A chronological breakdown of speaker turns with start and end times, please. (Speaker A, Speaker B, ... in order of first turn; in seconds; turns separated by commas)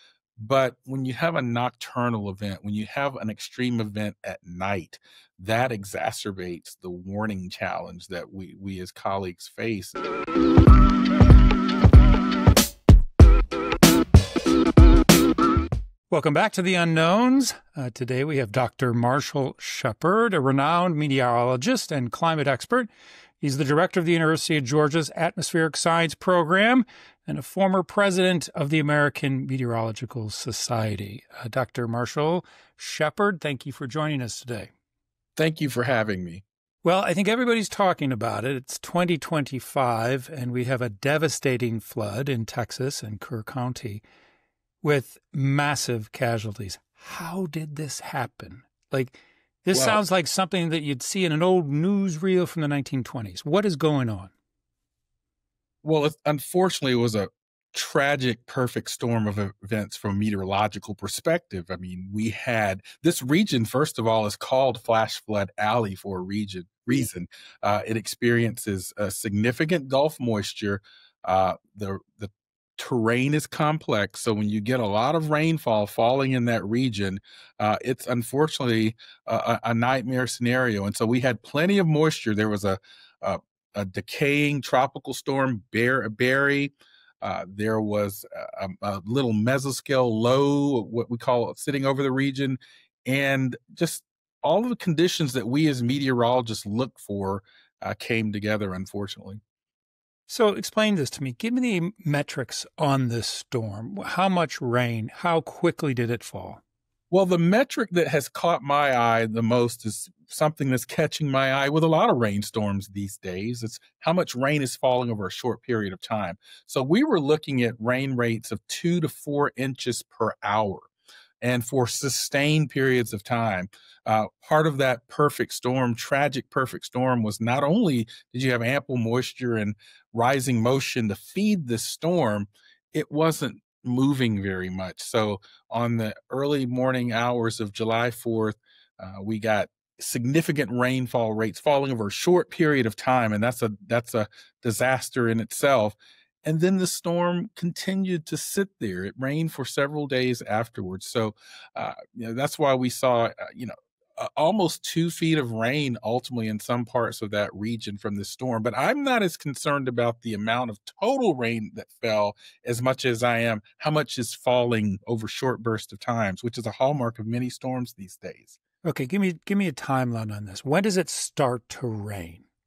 Speaker A: 0.4-10.0, Speaker B: 16.1-22.9, Speaker B: 23.4-34.7, Speaker A: 35.4-36.4, Speaker B: 36.8-44.0, Speaker B: 44.8-54.3, Speaker A: 49.7-50.0, Speaker A: 55.8-99.4, Speaker B: 100.3-106.6, Speaker A: 107.1-120.9, Speaker A: 121.4-168.6, Speaker B: 168.8-172.4